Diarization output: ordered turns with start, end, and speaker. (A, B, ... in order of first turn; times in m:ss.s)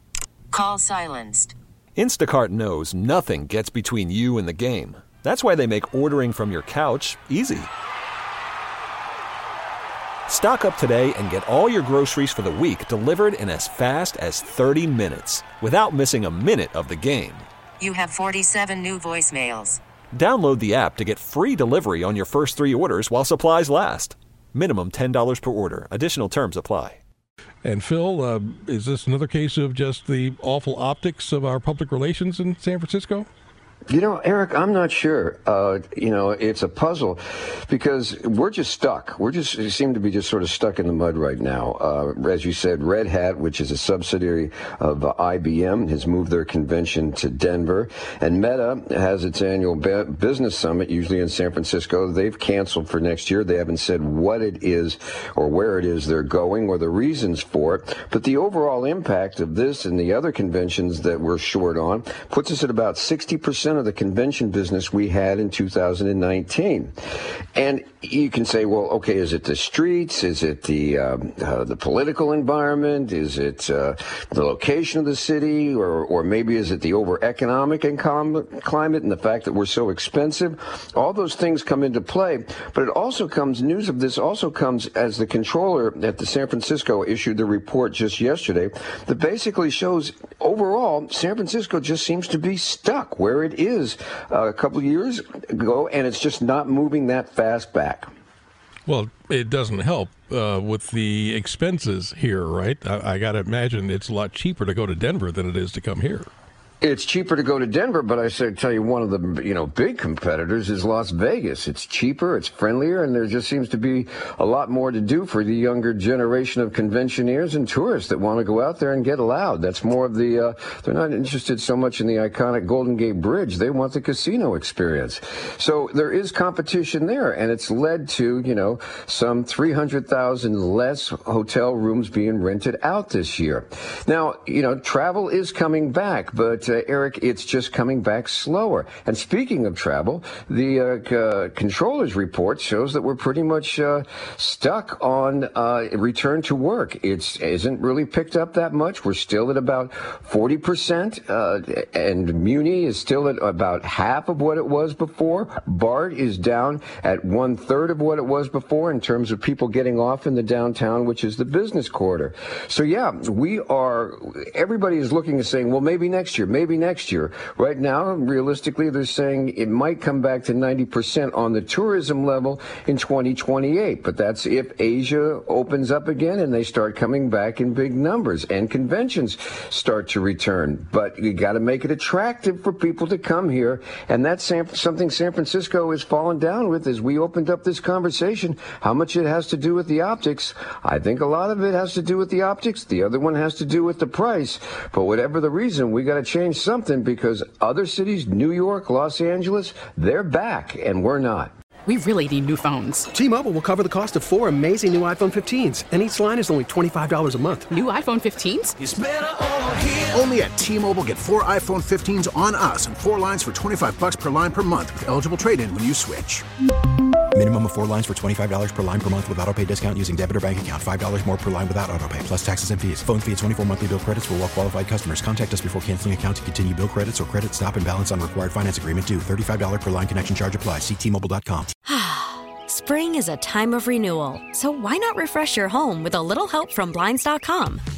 0:00.5-0:01.6 A
0:02.0-0:07.7 B
0:10.3-0:17.5 B
0:17.8-0:19.8 A
0:20.1-0:27.0 B
0:27.6-0:33.3 C
0:33.9-1:06.9 D
1:07.6-1:38.1 D
1:38.9-1:46.3 C
1:46.8-3:21.5 D
3:21.9-3:23.1 E
3:23.1-3:27.7 F
3:27.7-3:28.8 E
3:28.8-3:36.4 G
3:37.3-3:51.7 H
3:51.8-3:57.8 I